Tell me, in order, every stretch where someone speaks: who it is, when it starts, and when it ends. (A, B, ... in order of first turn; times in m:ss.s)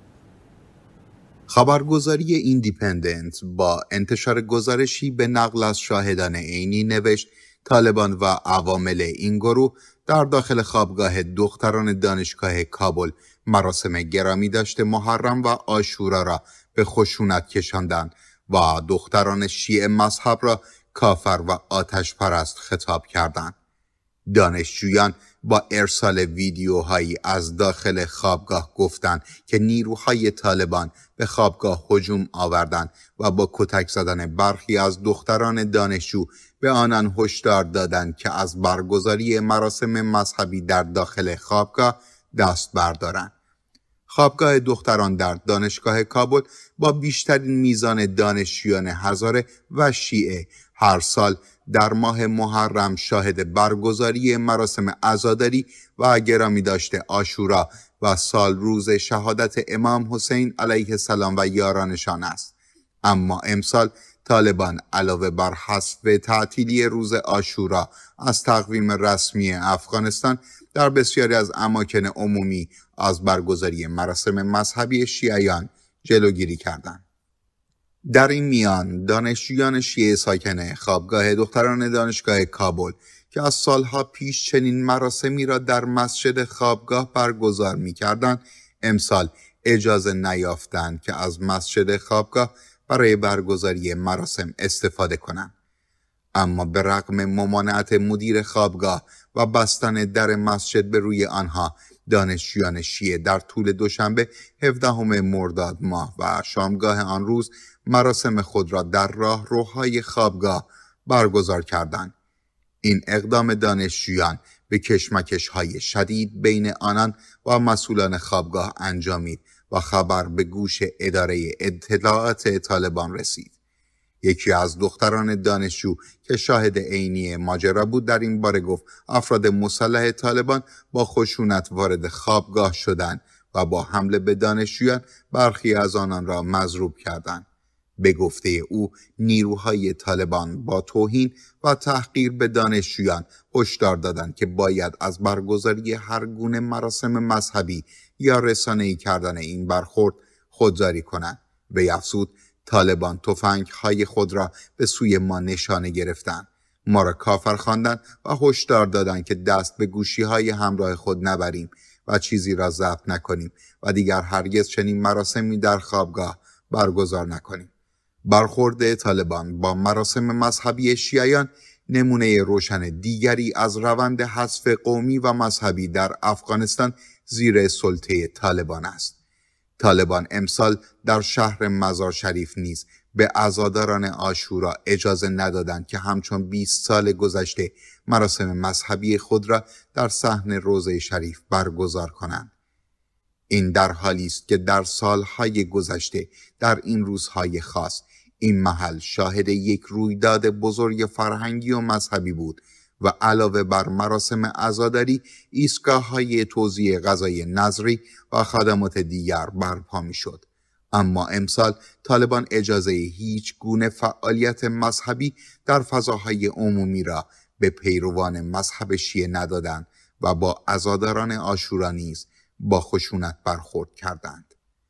0:01.5-0:23.6 A
0:24.3-0:43.3 A
0:44.1-1:02.5 A
1:03.1-1:17.0 A
1:18.1-1:35.5 A
1:36.4-1:52.1 A
1:52.8-2:03.5 A
2:04.2-2:17.4 A
2:18.0-2:47.7 A
2:48.3-2:59.2 A
2:59.8-3:12.5 A
3:13.5-3:44.5 A